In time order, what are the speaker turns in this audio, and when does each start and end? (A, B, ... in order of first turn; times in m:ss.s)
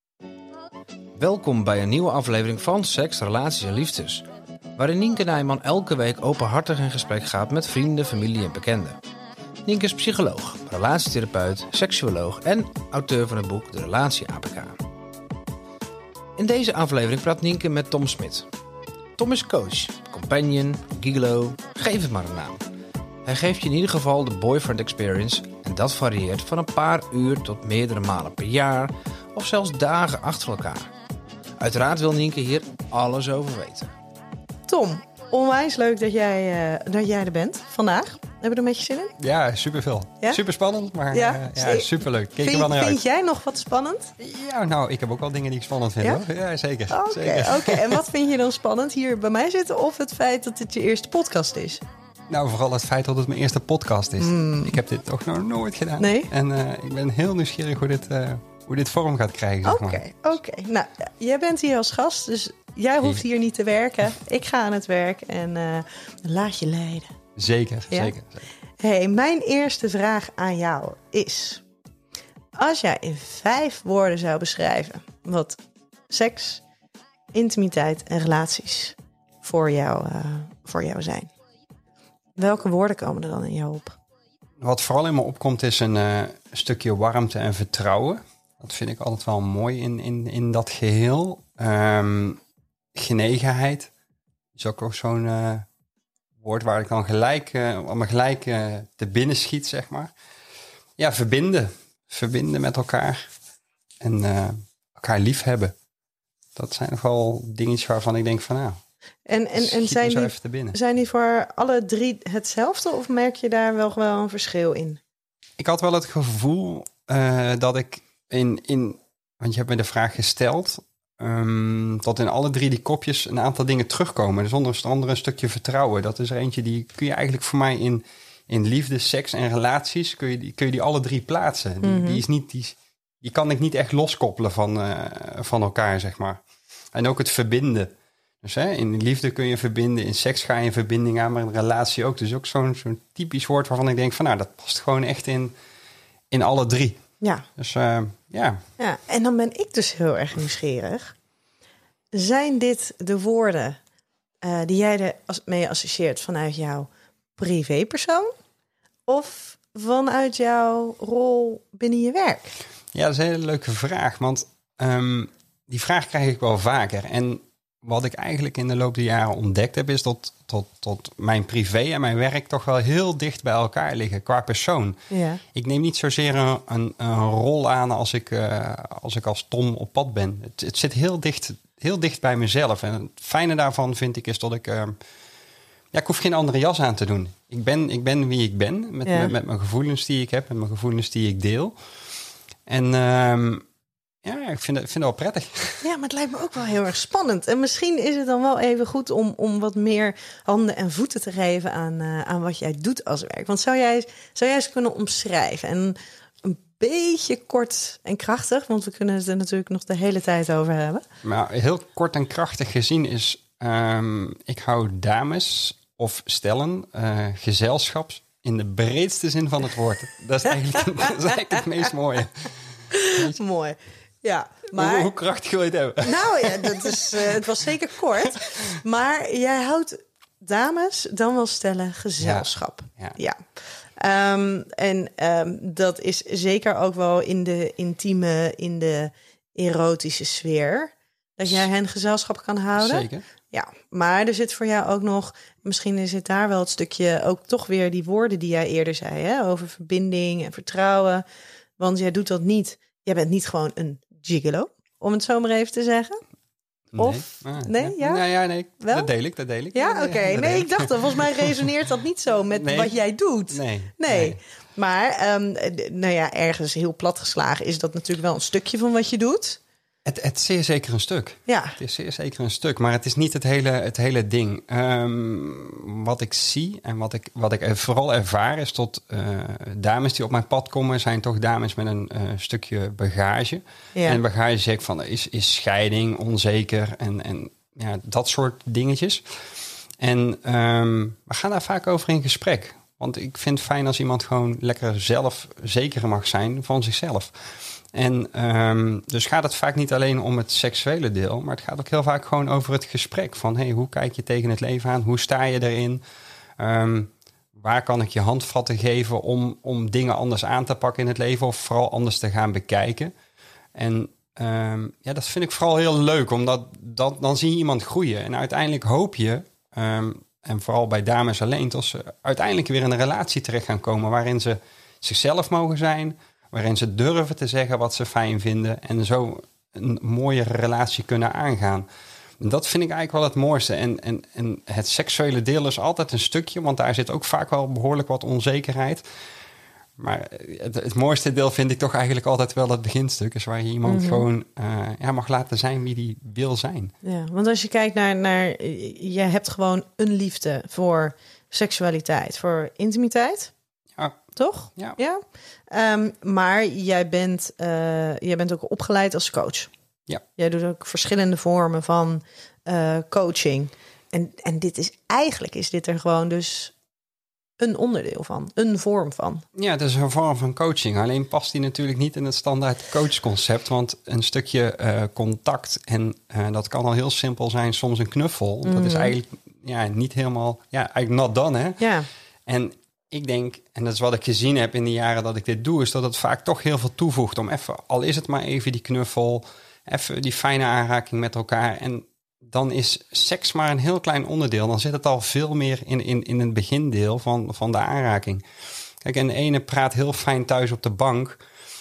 0:01.2-0:04.2 A
0:04.8-0:09.0 A
0:09.6-0:14.8 A
0:16.4-0:18.4 A
0:19.2-0:22.6 A
0:23.2-0:30.9 A
0:31.6-0:33.9 A
0:34.7-0:39.1 B
0:39.2-0:43.0 C
0:41.1-0:44.1 B
0:44.2-0:48.0 C
0:46.9-0:51.8 B
0:52.3-1:00.3 C
0:54.2-0:54.7 B
0:56.0-0:56.3 B
0:59.6-1:07.1 B
1:07.4-1:08.4 C
1:08.8-1:11.6 B
1:12.6-1:16.6 B
1:17.3-1:21.3 B
1:22.4-1:24.0 B
1:24.6-1:32.4 C
1:32.9-1:33.9 C
1:34.6-1:35.7 C
1:36.4-1:40.1 C
1:41.0-1:43.3 C
1:44.0-1:45.7 C
1:46.6-1:48.8 C
1:49.3-1:55.0 B
1:49.6-1:50.8 C
1:55.6-2:16.4 C
2:11.8-2:12.2 B
2:16.9-2:25.5 C
2:26.3-2:27.0 C
2:27.6-2:28.6 C
2:28.8-2:31.1 B
2:32.1-2:33.8 B
2:34.4-2:38.3 B
2:39.1-2:42.5 B
2:42.9-2:55.0 C
2:55.1-2:55.4 B
2:55.5-3:04.9 C
3:05.9-3:11.7 C
3:09.0-3:09.3 B
3:12.7-3:13.6 C
3:14.2-3:15.8 C
3:15.8-3:31.0 B
3:31.2-3:43.4 C
3:42.9-3:45.1 B
3:44.7-3:47.3 C
3:46.0-4:11.2 B
3:52.2-3:52.4 C
4:02.8-4:03.2 C
4:11.8-4:16.2 B
4:16.9-4:21.5 C
4:17.0-4:18.2 B
4:18.8-4:19.1 B
4:19.7-4:29.6 B
4:22.5-4:23.0 C
4:23.5-4:24.4 C
4:30.0-4:49.4 C
4:31.5-4:31.8 B
4:50.0-5:06.0 C
5:06.6-5:13.1 C
5:13.7-5:31.8 C
5:32.4-5:39.0 C
5:40.0-5:46.9 C
5:43.8-5:44.2 B
5:47.0-5:53.5 B
5:54.4-5:59.7 B
6:00.4-6:06.7 B
6:07.6-6:09.4 B
6:09.5-6:21.8 C
6:18.6-6:19.1 B
6:21.8-6:22.1 B
6:22.4-6:38.4 C
6:39.0-6:41.4 C